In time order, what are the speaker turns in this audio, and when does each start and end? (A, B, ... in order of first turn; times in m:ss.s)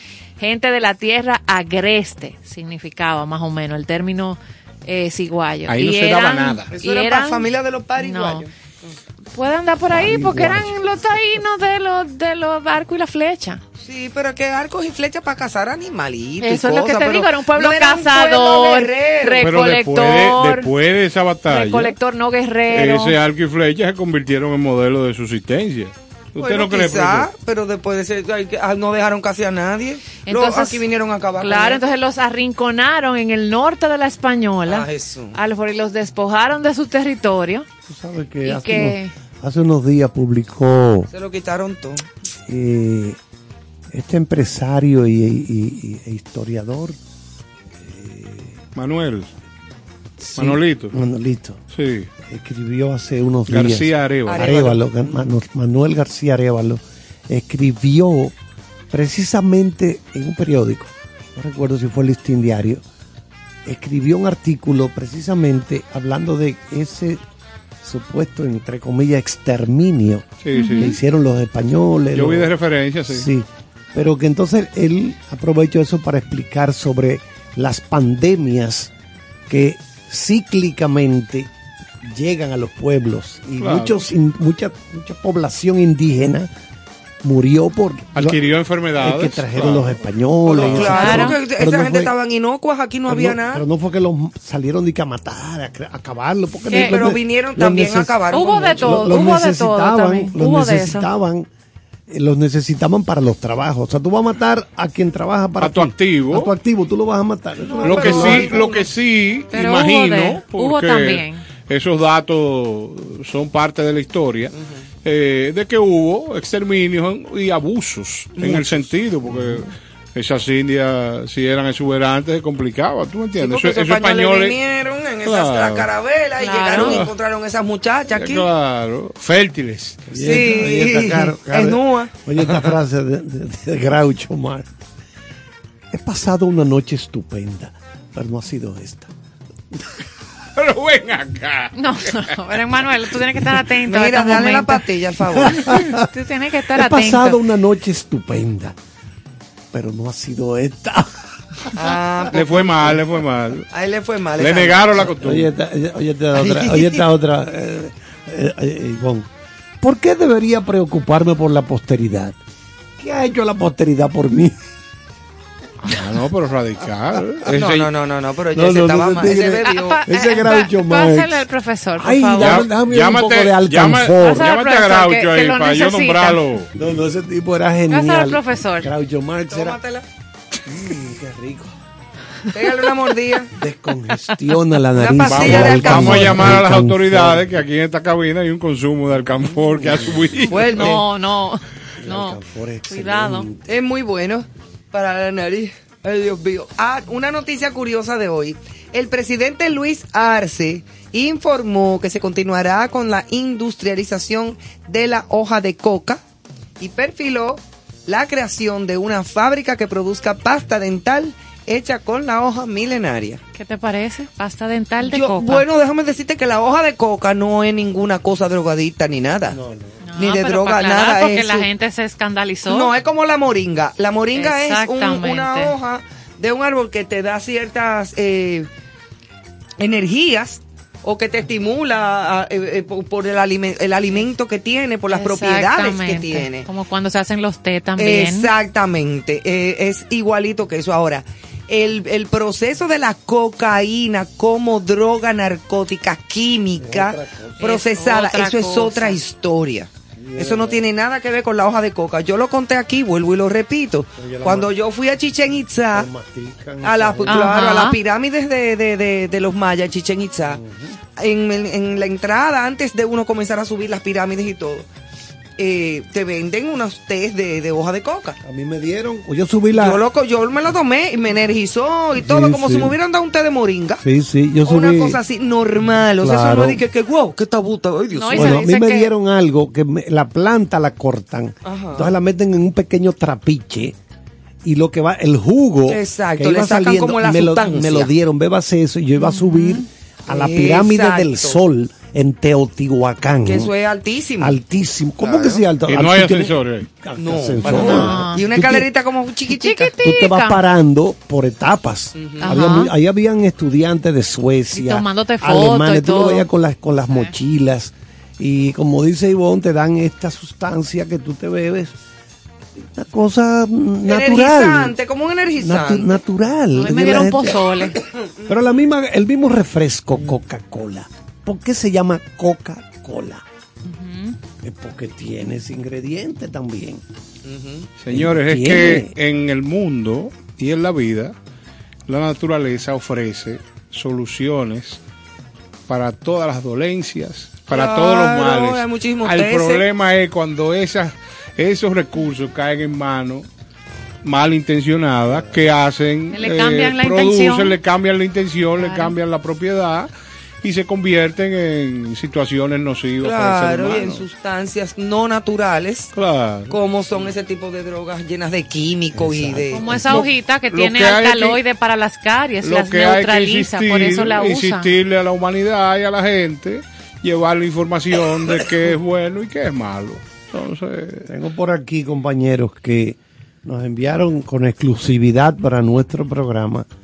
0:00.4-0:07.5 A
0:05.7-0:06.7 B
0:06.7-0:09.0 C
0:08.0-0:08.5 A
0:09.3-0:13.6 A
0:09.9-0:10.8 D
0:13.8-0:19.5 C
0:16.4-0:20.7 A
0:19.4-0:22.0 B
0:21.5-0:23.2 A
0:22.7-0:27.3 B
0:26.4-0:31.8 C
0:30.3-0:30.8 A
0:31.4-0:37.7 A
0:34.7-0:35.4 C
0:37.9-0:41.1 D
0:38.4-0:39.1 A
0:41.1-0:42.1 C
0:42.5-0:43.2 D
0:43.9-0:47.0 D
0:47.8-0:48.6 D
0:48.8-0:49.3 B
0:50.2-0:51.6 D
0:50.4-0:50.9 B
0:51.7-0:52.1 B
0:52.3-0:58.3 D
0:53.5-0:54.7 B
0:54.3-0:55.2 C
0:58.9-1:02.8 D
1:03.6-1:07.2 D
1:07.8-1:12.5 D
1:10.4-1:11.0 B
1:10.5-1:11.0 A
1:12.1-1:13.3 B
1:13.1-1:18.9 D
1:19.5-1:21.5 D
1:22.0-1:26.5 D
1:23.6-1:24.0 B
1:27.2-1:28.4 D
1:28.2-1:30.9 B
1:29.0-1:32.1 D
1:30.5-1:33.6 C
1:30.8-1:31.4 A
1:33.1-1:38.2 D
1:36.7-1:37.0 A
1:36.7-1:39.1 C
1:38.3-1:41.1 A
1:38.8-1:41.5 D
1:42.1-1:48.7 D
1:45.6-1:46.5 B
1:47.8-1:54.5 B
1:47.8-1:48.7 C
1:49.5-1:51.4 A
1:55.0-2:04.6 B
1:58.4-1:58.9 C
2:03.4-2:08.5 C
2:05.2-2:05.9 B
2:06.4-2:07.0 A
2:06.7-2:07.1 B
2:08.1-2:10.4 B
2:10.1-2:14.7 D
2:10.2-2:12.7 C
2:15.9-2:19.1 D
2:20.6-2:22.2 B
2:21.8-2:24.8 A
2:23.8-2:25.8 C
2:25.4-2:26.0 D
2:25.7-2:27.4 A
2:26.7-2:28.8 D
2:29.7-2:31.7 D
2:31.7-2:33.0 C
2:32.3-2:33.7 B
2:33.7-2:35.2 C
2:34.4-2:35.5 B
2:35.2-2:39.3 D
2:36.4-2:37.1 C
2:39.8-2:42.4 D
2:43.0-2:44.6 D
2:45.8-2:47.9 B
2:47.5-2:50.0 C
2:48.5-2:51.5 D
2:49.6-2:52.6 A
2:52.0-2:54.6 D
2:52.4-2:56.7 B
2:54.2-2:56.4 A
2:56.8-2:59.8 D
2:57.9-2:58.9 A
2:59.5-3:00.0 C
3:00.7-3:01.7 D
3:02.5-3:03.5 C
3:03.6-3:07.5 D
3:05.0-3:06.6 C
3:05.2-3:10.9 B
3:09.8-3:10.3 D
3:10.5-3:11.0 C
3:10.6-3:13.5 A
3:12.0-3:13.7 D
3:13.7-3:26.2 C
3:26.8-3:33.4 C
3:33.6-3:35.6 A
3:35.0-3:39.6 C
3:39.5-3:40.0 D
3:40.0-3:42.9 A
3:40.2-3:41.7 C
3:42.7-3:48.7 C
3:44.4-3:45.7 A
3:49.8-3:56.7 C
3:55.1-3:58.5 A
3:58.0-4:16.1 C
4:06.8-4:07.6 D
4:07.6-4:09.2 A
4:10.2-4:10.8 D
4:14.2-4:14.7 D
4:15.9-4:17.6 D
4:16.8-4:20.6 C
4:17.3-4:18.0 A
4:20.5-4:21.0 D
4:21.2-4:24.9 C
4:25.6-4:28.4 C
4:28.4-4:30.0 D
4:29.8-4:34.0 C
4:32.2-4:33.0 D
4:34.0-4:35.2 D
4:34.6-4:38.6 C
4:36.2-4:36.8 D
4:38.2-4:39.1 A
4:38.3-4:44.0 D
4:41.6-4:42.1 C
4:44.6-4:53.7 D
4:45.9-4:48.1 C
4:49.2-4:49.9 A
4:50.3-4:51.6 C
4:53.4-4:54.6 C
4:54.4-4:58.9 D
4:55.2-4:55.6 C
4:55.9-4:56.9 B
4:57.2-4:59.9 C
4:57.6-4:58.4 A
4:59.5-5:00.6 A
5:00.0-5:12.0 D
5:02.2-5:02.5 C
5:02.4-5:02.9 A
5:04.7-5:06.5 A
5:07.1-5:07.3 A
5:12.8-5:15.0 D
5:14.1-5:16.2 C
5:15.6-5:17.6 D
5:16.8-5:18.0 A
5:18.5-5:23.4 D
5:23.9-5:24.4 A
5:24.6-5:27.0 D
5:27.4-5:27.9 C
5:28.0-5:31.3 B
5:28.1-5:29.1 D
5:32.1-5:35.0 B
5:35.9-5:43.5 B
5:37.7-5:39.8 C
5:44.2-5:50.1 B
5:45.3-5:45.6 D
5:46.3-5:47.8 A
5:48.8-5:49.1 A
5:50.6-5:54.2 B
5:53.2-5:56.1 C
5:56.2-5:56.7 B
5:56.7-6:00.0 C
5:59.1-6:00.2 D
5:59.7-6:04.9 A
6:00.1-6:01.6 B
6:02.6-6:11.3 B
6:11.3-6:16.9 D